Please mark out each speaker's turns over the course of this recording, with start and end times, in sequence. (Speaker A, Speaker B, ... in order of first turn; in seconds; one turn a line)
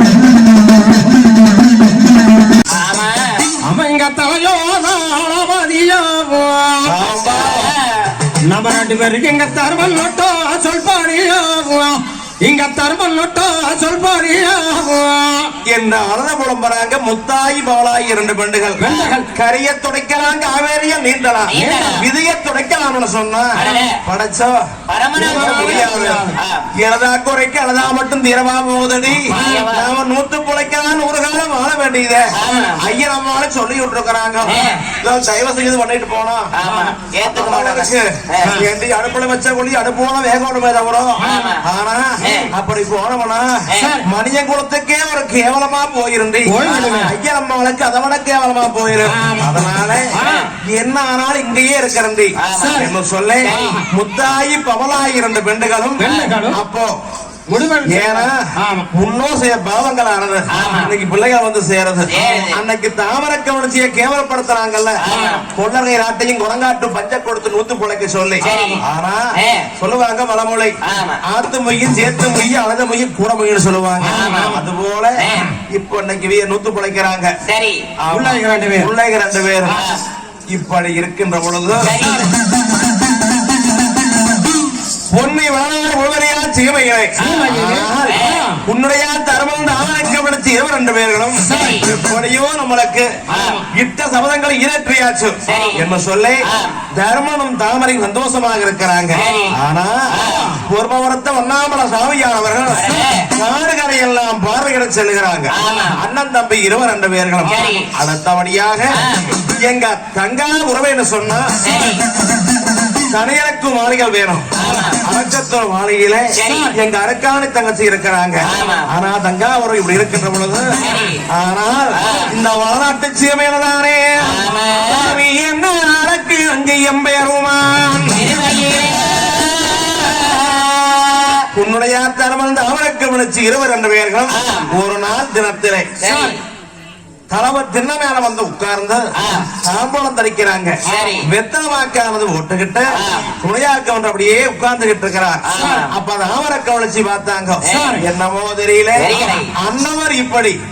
Speaker A: 2.8-3.4
Speaker B: 3.6-6.9
Speaker C: 6.8-7.7
Speaker A: 7.3-8.1
Speaker B: 8.5-15.5
Speaker C: 15.7-23.5
Speaker B: 18.8-19.2
Speaker A: 21.5-22.0
Speaker B: 21.5-21.9
Speaker A: 23.6-23.9
Speaker C: 24.0-24.6
Speaker A: 24.9-26.6
Speaker C: 25.1-26.2
Speaker B: 25.2-26.4
Speaker C: 26.8-36.5
Speaker B: 29.3-29.6
Speaker A: 29.3-29.9
Speaker A: 32.4-32.8
Speaker A: 34.5-34.8
Speaker A: 36.6-38.5
Speaker B: 36.7-36.9
Speaker C: 37.2-50.1
Speaker B: 41.2-41.5
Speaker A: 41.2-41.6
Speaker A: 42.2-42.5
Speaker B: 43.8-44.0
Speaker B: 46.5-47.1
Speaker B: 49.0-49.6
Speaker B: 50.1-50.5
Speaker A: 50.2-50.5
Speaker C: 50.6-56.9
Speaker A: 52.4-52.9
Speaker B: 52.6-52.9
Speaker A: 53.4-53.8
Speaker B: 53.5-53.8
Speaker B: 56.0-56.6
Speaker A: 56.0-56.3
Speaker B: 57.5-58.9
Speaker C: 57.8-58.3
Speaker C: 58.9-69.2
Speaker A: 60.5-60.9
Speaker A: 62.1-62.5
Speaker A: 65.0-65.4
Speaker B: 65.1-65.4
Speaker A: 68.4-68.8
Speaker B: 68.4-68.8
Speaker A: 69.4-69.7
Speaker C: 69.8-77.3
Speaker A: 70.9-71.2
Speaker B: 74.0-74.6
Speaker A: 74.1-74.5
Speaker A: 75.2-75.5
Speaker A: 77.5-77.8
Speaker C: 78.0-79.8
Speaker B: 78.1-78.9
Speaker A: 79.7-80.0
Speaker C: 80.5-82.0
Speaker A: 81.8-82.3
Speaker C: 85.1-93.2
Speaker B: 87.2-88.6
Speaker A: 87.2-87.5
Speaker A: 88.1-88.4
Speaker B: 91.5-91.8
Speaker A: 91.5-91.8
Speaker A: 93.3-93.6
Speaker C: 93.7-111.5
Speaker A: 95.5-95.8
Speaker A: 96.5-96.8
Speaker A: 99.1-99.5
Speaker B: 99.2-99.5
Speaker A: 100.1-100.5
Speaker A: 102.7-103.3
Speaker A: 105.6-106.0
Speaker A: 107.4-107.8
Speaker A: 108.9-109.3
Speaker A: 111.6-112.0
Speaker C: 113.1-120.7
Speaker A: 114.6-115.0
Speaker A: 116.4-116.7
Speaker A: 118.5-118.9
Speaker A: 120.8-121.2
Speaker C: 121.3-128.4
Speaker A: 122.0-122.3
Speaker A: 124.2-125.2
Speaker A: 128.1-131.4
Speaker C: 131.5-135.9
Speaker A: 134.4-134.7
Speaker A: 136.0-136.4
Speaker B: 136.0-136.4
Speaker C: 137.3-150.6
Speaker A: 139.2-139.4
Speaker A: 140.8-141.2
Speaker A: 143.0-143.3
Speaker A: 145.5-145.8
Speaker B: 145.6-145.8
Speaker B: 147.7-148.0
Speaker A: 149.1-149.4